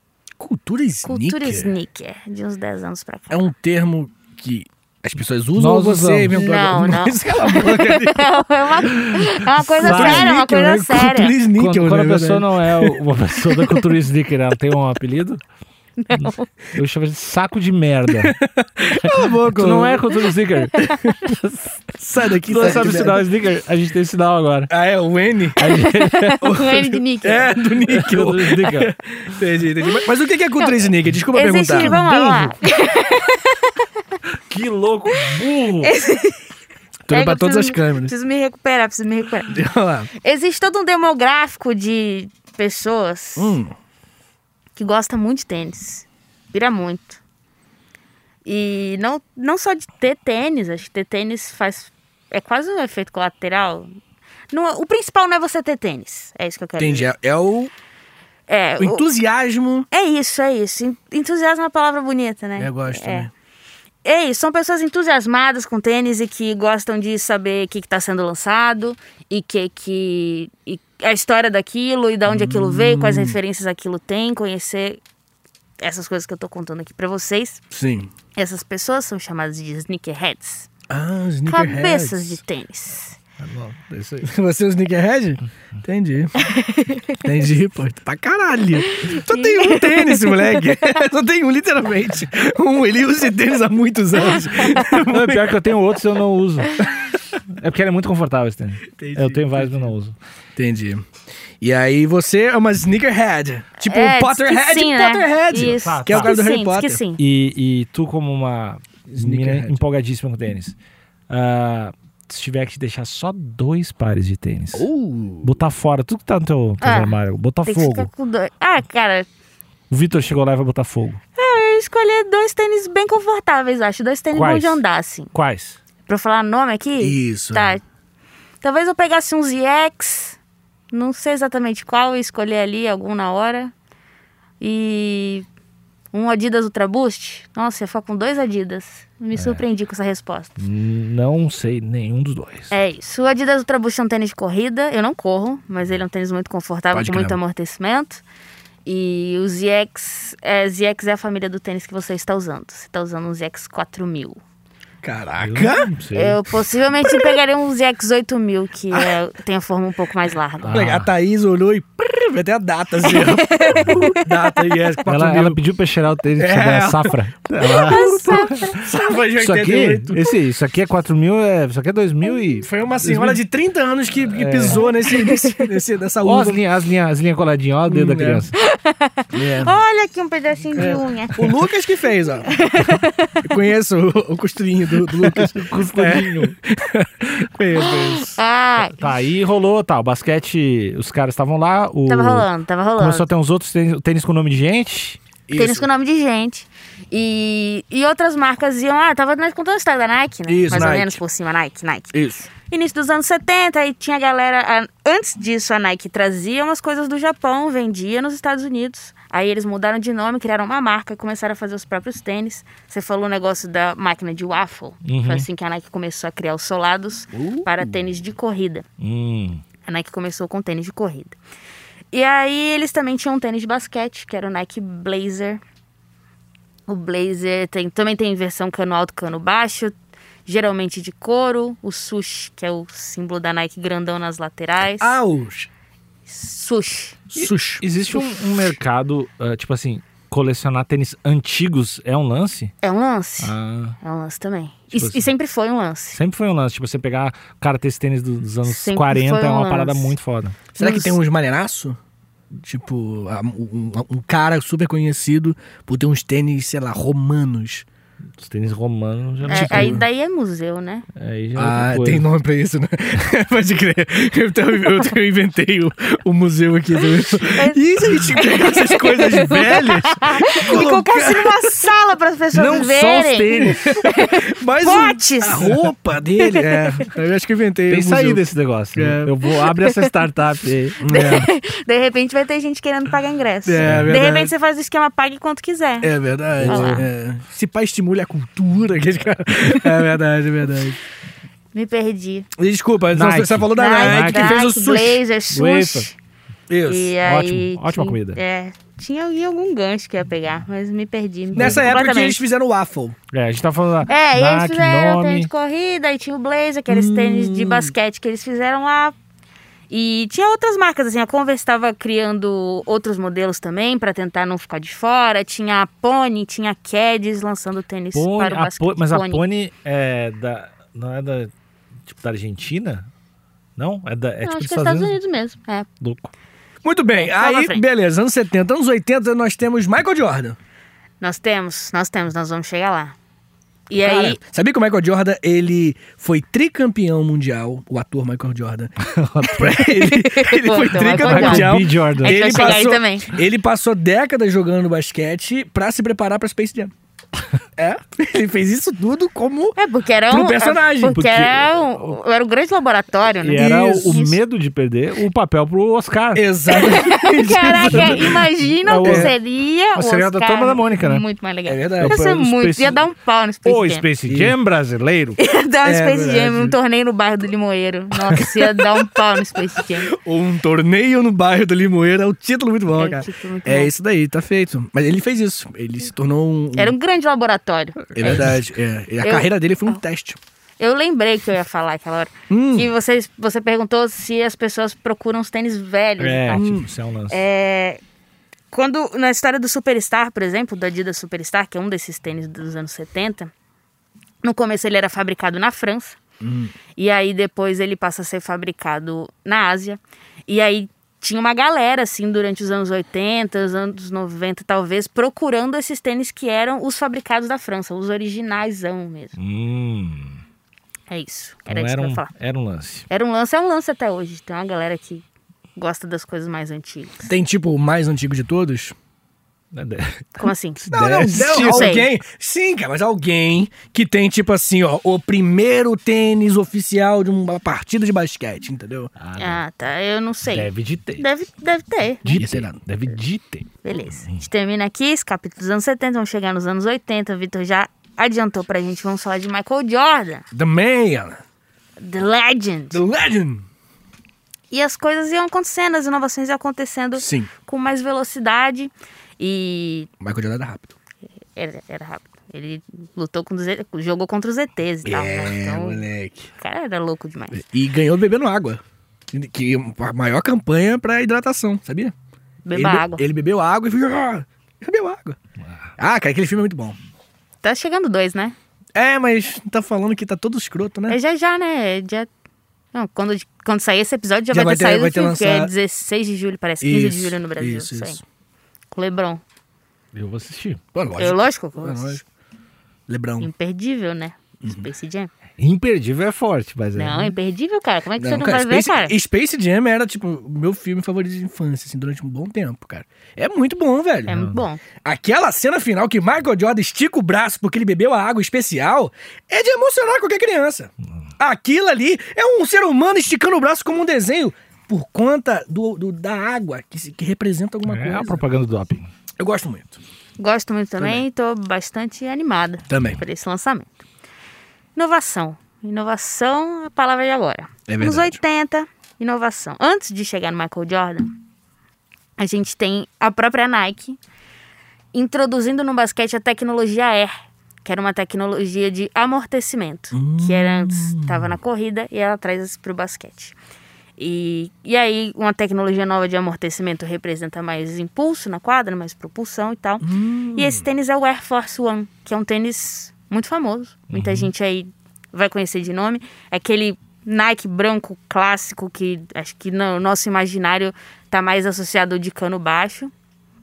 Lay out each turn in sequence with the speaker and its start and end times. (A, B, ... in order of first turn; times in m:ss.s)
0:00.4-0:01.7 A
0:01.0-0:03.5 B
0:03.3-0:08.2 A
0:05.6-0:06.4 C
0:06.3-0:11.3 B
0:09.8-0:13.0 A
0:09.8-0:10.3 C
0:11.6-0:15.4 C
0:16.0-0:16.5 B
0:16.1-0:18.4 C
0:18.1-0:20.1 A
0:18.9-0:21.8 C
0:20.8-0:21.3 A
0:22.0-0:23.2 A
0:22.4-0:24.7 C
0:24.7-0:25.6 A
0:25.6-0:26.4 C
0:25.6-0:27.6 B
0:26.4-0:32.0 A
0:27.8-0:28.9 C
0:31.3-0:34.2 B
0:31.8-0:32.5 C
0:34.5-0:35.9 C
0:35.8-0:36.5 B
0:37.1-0:38.1 A
0:37.1-0:39.6 B
0:39.5-0:40.1 A
0:40.1-0:43.6 B
0:43.4-0:43.7 A
0:44.8-0:47.2 B
0:48.5-0:53.9 B
0:54.5-0:57.1 B
0:56.8-0:57.7 A
0:58.5-0:59.0 B
0:58.8-0:59.9 A
0:59.9-1:03.3 B
1:02.6-1:03.3 A
1:04.0-1:15.0 B
1:12.3-1:13.4 A
1:15.8-1:17.6 B
1:17.7-1:18.1 A
1:18.4-1:20.7 B
1:20.9-1:22.4 A
1:21.5-1:23.2 B
1:23.4-1:24.3 C
1:24.2-1:26.4 A
1:26.4-1:27.2 B
1:27.2-1:35.5 A
1:28.8-1:30.6 B
1:34.9-1:36.9 C
1:37.5-1:40.2 C
1:38.9-1:39.9 A
1:40.6-1:41.1 A
1:41.6-1:47.0 A
1:43.8-1:47.2 B
1:45.6-1:46.4 C
1:47.2-1:50.8 C
1:49.1-1:49.8 A
1:51.3-1:54.9 C
1:54.7-1:55.6 A
1:55.4-1:58.1 C
1:56.8-1:59.3 B
1:59.9-2:01.2 C
2:01.4-2:05.3 B
2:04.3-2:04.8 C
2:05.3-2:05.8 C
2:06.1-2:07.8 B
2:07.0-2:07.8 A
2:08.6-2:10.4 B
2:10.9-2:13.7 B
2:14.6-2:15.5 B
2:16.1-2:20.6 B
2:19.4-2:19.6 C
2:20.6-2:22.7 C
2:22.7-2:28.2 B
2:26.9-2:27.4 A
2:28.8-2:34.4 B
2:35.0-2:35.9 A
2:35.4-2:36.4 C
2:36.2-2:40.8 B
2:40.6-2:41.1 C
2:40.7-2:45.6 A
2:43.0-2:44.3 B
2:45.1-2:53.4 C
2:46.4-2:50.3 A
2:47.7-2:48.8 B
2:52.6-2:56.6 A
2:54.2-2:54.9 C
2:54.8-2:55.7 B
2:56.2-2:58.5 C
2:57.9-2:58.5 A
2:58.6-3:01.5 B
2:59.3-2:59.8 A
3:00.8-3:02.6 A
3:02.5-3:03.5 B
3:03.4-3:08.4 A
3:05.2-3:06.6 C
3:07.8-3:09.0 B
3:08.9-3:15.2 C
3:12.1-3:13.3 B
3:15.5-3:15.9 A
3:15.6-3:38.8 B
3:20.5-3:21.2 A
3:22.1-3:22.5 A
3:35.0-3:35.5 C
3:37.3-3:37.9 A
3:39.0-3:39.6 C
3:39.8-3:41.4 B
3:42.1-3:45.6 B
3:46.9-3:50.0 B
3:50.5-3:55.2 B
3:55.0-3:55.7 A
3:56.3-3:57.2 B
3:57.3-3:57.8 A
3:57.4-4:02.7 C
4:02.8-4:06.2 B
4:03.4-4:04.0 C
4:04.9-4:05.3 C
4:06.1-4:10.6 C
4:08.7-4:10.2 B
4:10.8-4:11.2 B
4:10.8-4:12.0 A
4:12.5-4:17.9 A
4:18.4-4:20.0 C
4:19.5-4:20.0 A
4:19.5-4:21.1 B
4:21.2-4:22.3 C
4:21.6-4:31.9 A
4:27.4-4:35.8 B
4:32.5-4:34.0 C
4:33.6-4:38.4 A
4:36.4-4:37.0 B
4:37.9-4:41.0 C
4:39.0-4:39.3 A
4:39.6-4:40.1 B
4:41.0-4:41.5 A
4:41.1-4:46.1 B
4:43.6-4:44.5 A
4:43.8-4:44.1 C
4:46.0-4:51.0 A
4:46.6-4:47.1 C
4:46.6-4:47.0 B
4:51.7-4:52.5 B
4:52.6-4:55.2 A
4:53.1-4:54.6 C
4:53.8-4:56.2 B
4:55.5-4:56.1 C
4:56.7-4:57.2 A
4:56.9-5:02.4 B
4:57.2-4:58.4 C
5:01.6-5:01.9 C
5:01.6-5:03.2 A
5:03.3-5:05.5 C
5:04.1-5:09.2 B
5:06.9-5:07.9 A
5:09.9-5:19.4 B
5:18.1-5:21.5 C
5:22.1-5:23.1 C
5:23.8-5:25.2 C
5:24.4-5:25.9 B
5:26.0-5:26.3 C
5:26.8-5:30.6 A
5:27.2-5:27.8 B
5:31.2-5:33.2 B
5:33.9-5:34.4 B
5:34.0-5:46.9 A
5:39.0-5:39.8 C
5:39.7-5:43.4 B
5:41.1-5:42.8 C
5:47.8-5:49.8 A
5:49.8-5:54.4 B
5:50.3-5:51.3 A
5:51.1-5:52.2 C
5:53.4-5:56.5 C
5:53.5-5:54.2 A
5:56.4-5:58.4 A
5:56.7-6:04.0 B
5:57.9-5:58.3 C
5:58.8-5:59.4 C
5:59.0-5:59.3 A
6:00.0-6:01.2 C
6:01.7-6:02.2 A
6:02.0-6:03.0 C
6:03.6-6:05.4 C
6:04.3-6:04.6 A
6:05.4-6:10.1 B
6:05.8-6:06.8 A
6:10.1-6:17.0 A
6:13.0-6:13.9 B
6:16.8-6:18.5 B
6:18.2-6:18.6 C
6:18.2-6:20.4 A
6:19.2-6:20.0 B
6:20.8-6:26.7 B
6:22.5-6:22.9 A
6:26.2-6:27.4 C
6:26.5-6:26.9 A
6:27.3-6:28.0 B
6:28.7-6:33.5 B
6:34.4-6:36.2 B
6:36.4-6:36.7 A
6:37.0-6:49.4 B
6:49.4-6:50.4 C
6:51.1-6:52.3 B
6:51.7-6:53.1 C
6:53.1-6:55.2 B
6:55.8-6:57.3 B
6:57.3-6:59.0 A
6:59.7-7:01.9 C
7:00.4-7:02.1 B
7:00.9-7:09.1 A
7:09.2-7:09.6 C
7:09.4-7:12.4 B
7:10.5-7:11.2 C
7:12.2-7:14.4 C
7:12.4-7:12.8 A
7:13.8-7:20.4 B
7:20.5-7:21.4 A
7:22.0-7:23.0 B
7:22.9-7:23.7 A
7:24.7-7:30.1 B
7:27.2-7:27.5 A
7:30.2-7:31.0 A
7:31.6-7:36.0 B
7:35.0-7:36.5 A
7:36.6-7:37.6 B
7:37.5-7:42.1 A
7:42.6-7:43.2 B
7:42.7-7:45.4 A
7:46.0-7:47.0 A
7:47.6-7:48.6 B
7:49.0-7:51.2 A
7:51.1-7:52.3 B
7:52.9-7:58.2 B
7:54.5-7:55.7 A
7:56.8-7:58.2 A
7:58.9-7:59.4 B
8:00.1-8:00.8 C
8:00.9-8:02.2 A
8:01.2-8:02.2 B
8:03.1-8:03.5 A
8:03.4-8:05.3 B
8:04.6-8:04.9 A
8:05.6-8:07.4 C
8:07.0-8:09.2 B
8:08.2-8:14.4 A
8:14.3-8:14.8 B
8:14.3-8:14.6 C
8:15.0-8:28.4 A
8:27.9-8:29.1 C
8:29.4-8:30.0 A
8:30.4-8:34.0 B
8:31.0-8:31.2 A
8:32.9-8:33.2 A
8:35.0-8:41.3 B
8:37.9-8:38.4 A
8:42.4-8:44.2 B
8:45.1-8:47.3 B
8:47.8-8:53.6 B
8:50.1-8:51.5 A
8:54.2-9:13.1 B
9:00.0-9:00.9 A
9:04.1-9:04.5 C